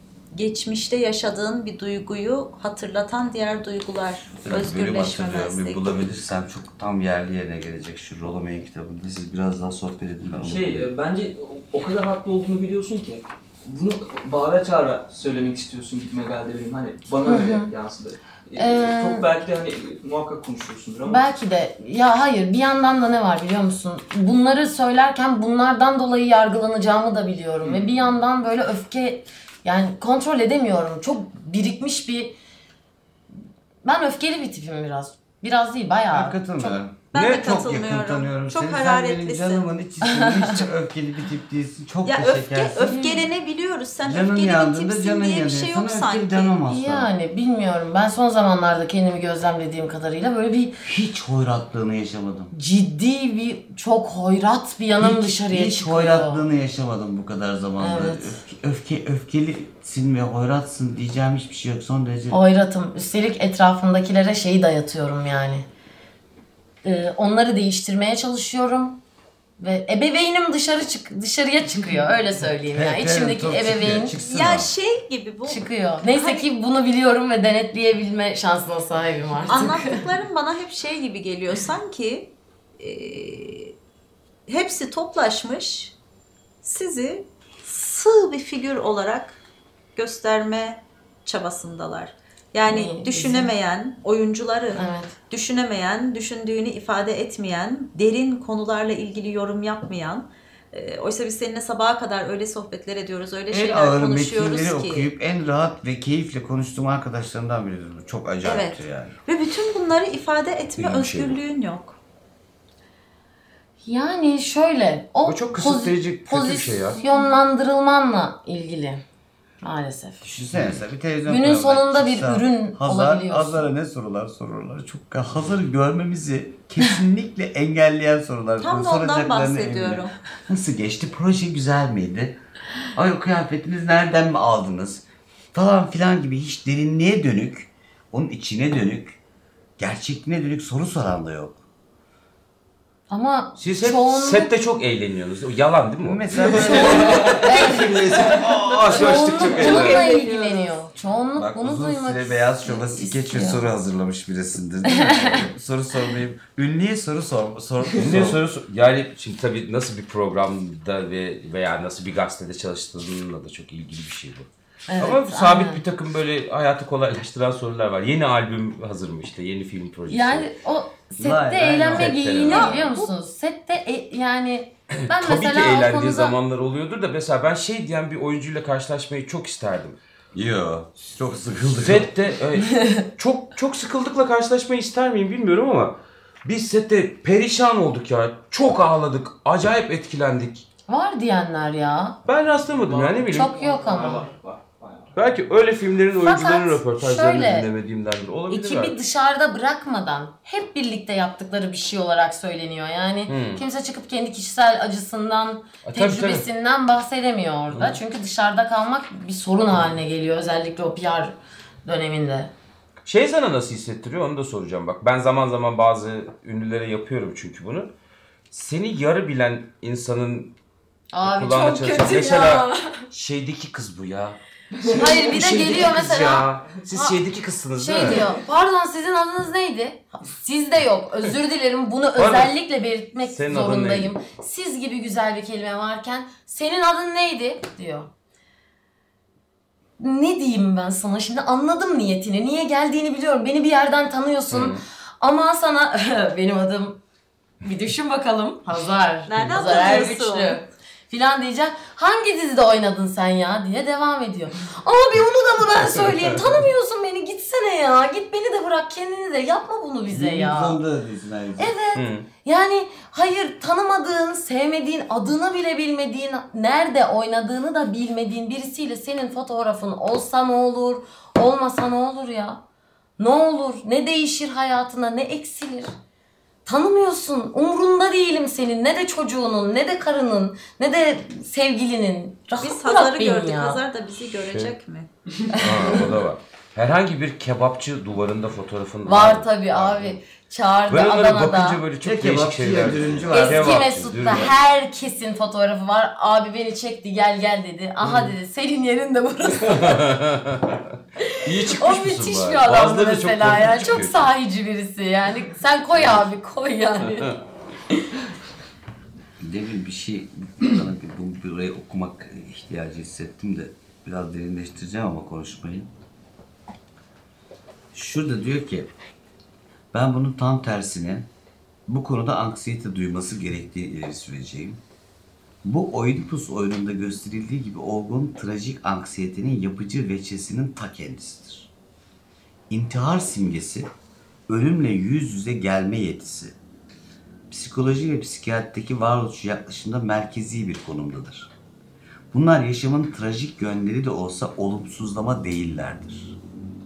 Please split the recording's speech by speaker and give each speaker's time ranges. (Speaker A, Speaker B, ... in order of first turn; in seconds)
Speaker A: 0.3-6.0, 37.1-39.7, 42.1-46.6, 74.2-76.5, 79.5-83.8, 84.5-86.0, 86.6-89.4, 90.0-105.1, 108.4-112.0, 117.0-117.3, 128.6-130.1, 172.4-173.1, 249.3-250.6, 282.6-285.1
Speaker B: 4.4-10.9, 36.1-43.0, 44.0-47.1, 50.8-52.5, 55.0-62.4, 72.7-74.7, 103.5-109.2, 120.2-132.4, 132.9-139.2, 139.8-141.6, 146.0-147.8, 148.3-148.7, 151.3-158.4, 171.2-172.2, 180.3-182.1, 260.1-261.7, 292.0-293.9, 309.4-315.9, 317.9-318.9, 319.9-321.3, 321.9-324.8, 325.6-331.7, 332.7-333.9, 334.5-336.6, 337.5-341.5, 342.3-346.4
Speaker C: 10.4-21.2, 27.6-28.0, 149.2-150.7, 192.6-195.3, 224.8-225.1
Speaker D: 17.3-17.7, 18.6-19.3, 21.1-32.4, 33.8-36.8, 40.0-40.5, 42.9-43.2, 46.7-50.8, 52.5-56.4, 57.8-58.4, 62.3-65.7, 66.8-69.0, 69.6-74.2, 75.5-79.9, 92.7-93.5, 94.8-95.2, 113.8-119.0, 119.6-120.2, 121.3-123.7, 143.1-144.5, 146.7-153.7, 154.9-155.4, 164.9-165.8, 170.1-176.4, 182.7-183.0, 190.9-192.2, 193.3-194.3, 196.2-197.7, 198.5-212.5, 221.1-223.1, 224.8-227.2, 227.8-238.1, 240.0-247.0, 247.6-260.8, 261.6-272.6, 273.2-275.9, 276.7-283.8, 285.6-286.1, 289.0-291.8, 293.3-300.1, 301.2-307.4
Speaker E: 110.8-111.4, 115.3-117.0, 143.6-148.2, 148.8-150.0, 158.0-170.5, 172.0-172.7, 175.1-180.0, 181.9-190.6, 192.3-193.5, 195.2-198.9, 203.3-203.6, 205.8-206.4, 207.7-208.0, 213.0-217.9, 218.5-220.6, 221.2-224.4, 225.3-228.2, 232.2-232.5, 233.3-234.2, 244.5-244.8, 261.9-262.3, 284.4-284.7, 285.6-290.2, 290.9-294.5, 298.1-298.3, 299.7-300.8, 301.5-304.2